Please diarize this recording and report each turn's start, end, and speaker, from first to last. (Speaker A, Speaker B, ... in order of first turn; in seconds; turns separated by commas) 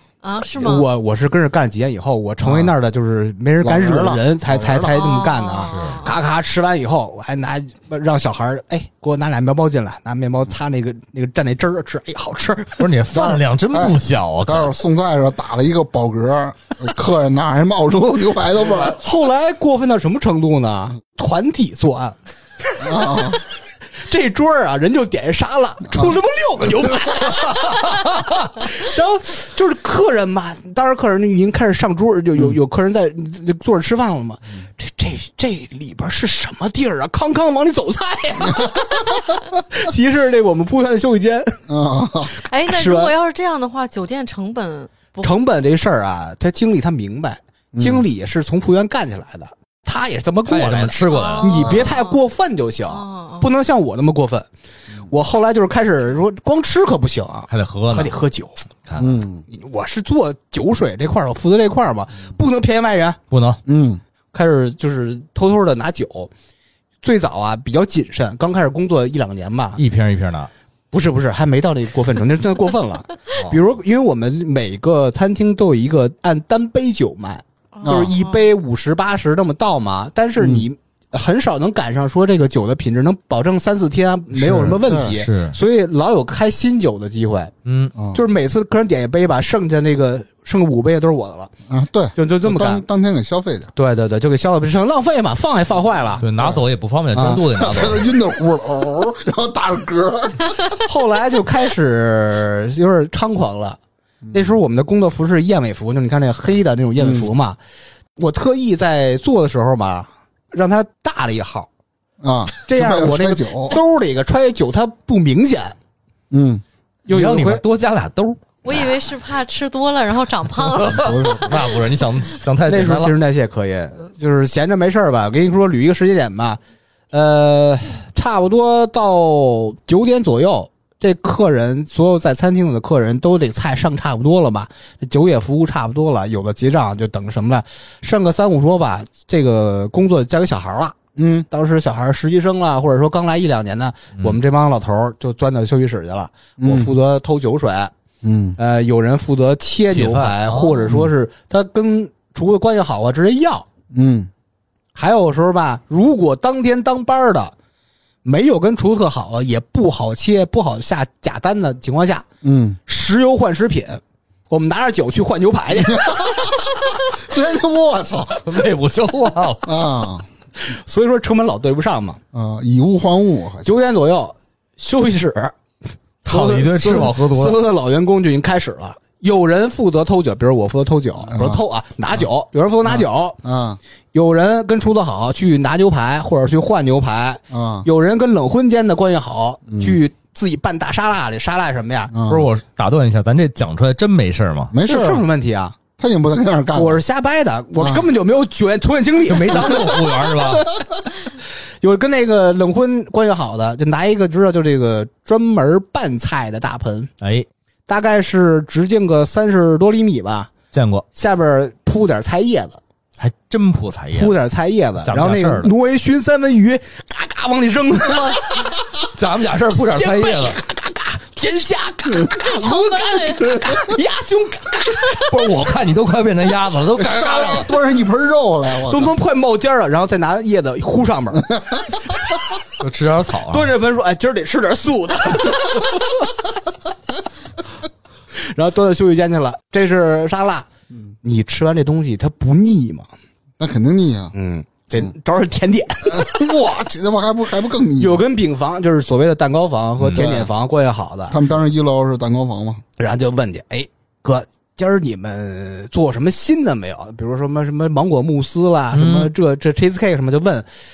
Speaker A: 0.2-0.9, Speaker B: 0.6-13.4, Speaker C: 2.4-2.7, Speaker C: 3.6-5.0, Speaker A: 4.9-6.2, Speaker D: 5.7-6.0, Speaker D: 12.8-14.7, Speaker C: 13.7-19.0, Speaker B: 18.6-23.4, Speaker C: 22.8-23.4, Speaker B: 23.9-41.6, Speaker C: 41.7-42.3, Speaker A: 42.4-45.3, Speaker B: 42.7-43.1, Speaker B: 45.2-54.5, Speaker C: 47.7-48.0, Speaker D: 50.5-51.9, Speaker A: 51.1-52.2, Speaker A: 52.9-53.5, Speaker B: 55.1-58.6, Speaker D: 57.5-58.2, Speaker D: 58.9-59.2, Speaker C: 59.0-59.5, Speaker B: 59.5-63.2, Speaker D: 63.3-63.6, Speaker C: 63.6-64.0, Speaker B: 64.3-66.3, Speaker B: 67.0-69.8, Speaker D: 69.8-70.5, Speaker B: 70.9-87.5, Speaker D: 73.3-73.6, Speaker A: 77.8-78.4, Speaker C: 77.8-78.1, Speaker C: 80.4-80.7, Speaker D: 84.4-85.6, Speaker C: 84.7-85.2, Speaker D: 87.7-87.9, Speaker C: 88.0-88.2, Speaker B: 88.1-91.5, Speaker C: 91.7-93.7, Speaker B: 92.2-92.8, Speaker B: 93.8-96.3, Speaker D: 96.2-98.1, Speaker B: 97.1-97.4, Speaker C: 97.6-100.8, Speaker B: 100.9-103.8, Speaker C: 104.2-104.6, Speaker B: 104.3-107.6, Speaker C: 107.0-107.3, Speaker B: 108.2-111.7, Speaker C: 112.2-113.8, Speaker B: 112.7-115.8, Speaker C: 116.3-116.6, Speaker B: 117.1-117.6, Speaker D: 117.1-118.8, Speaker A: 118.6-121.4, Speaker D: 120.7-123.2, Speaker C: 120.9-121.5, Speaker B: 122.7-126.6, Speaker B: 127.1-141.0, Speaker C: 141.2-141.5, Speaker B: 141.5-147.9, Speaker C: 146.6-146.9, Speaker C: 148.2-148.6, Speaker B: 148.6-153.7, Speaker D: 149.9-150.9, Speaker C: 153.9-154.3, Speaker B: 154.9-157.5, Speaker B: 158.2-162.3, Speaker C: 162.4-162.8, Speaker B: 162.9-166.6, Speaker C: 165.8-168.6, Speaker D: 168.4-169.8, Speaker C: 169.6-170.3, Speaker B: 170.6-172.2, Speaker C: 172.3-173.7, Speaker B: 173.6-175.6, Speaker B: 176.2-183.4, Speaker D: 176.2-177.6, Speaker C: 181.2-181.6, Speaker C: 182.8-183.8, Speaker B: 184.1-192.2, Speaker C: 187.5-187.9, Speaker C: 189.7-190.0, Speaker C: 192.1-192.5, Speaker D: 192.3-194.7, Speaker C: 194.7-195.2, Speaker B: 194.8-195.8, Speaker C: 196.0-197.0, Speaker B: 196.7-207.1, Speaker C: 197.8-198.1, Speaker D: 199.2-200.7, Speaker D: 207.2-207.5, Speaker B: 207.9-210.5, Speaker D: 210.7-211.1, Speaker B: 211.1-212.8, Speaker D: 213.2-214.4, Speaker B: 214.1-219.1, Speaker D: 215.0-215.7, Speaker A: 218.1-218.4, Speaker D: 219.1-220.6, Speaker B: 219.7-225.7, Speaker A: 222.4-223.6, Speaker D: 225.3-227.7, Speaker C: 226.9-229.1, Speaker B: 228.8-231.6, Speaker C: 231.5-231.9, Speaker D: 232.8-233.7, Speaker B: 233.5-236.3, Speaker B: 238.3-240.7, Speaker B: 241.2-243.1, Speaker C: 243.6-244.3, Speaker B: 244.3-246.5, Speaker C: 246.1-248.2, Speaker B: 248.0-251.4, Speaker D: 250.0-250.3, Speaker C: 250.1-250.5, Speaker C: 251.3-252.8, Speaker B: 253.0-260.7, Speaker D: 258.9-259.3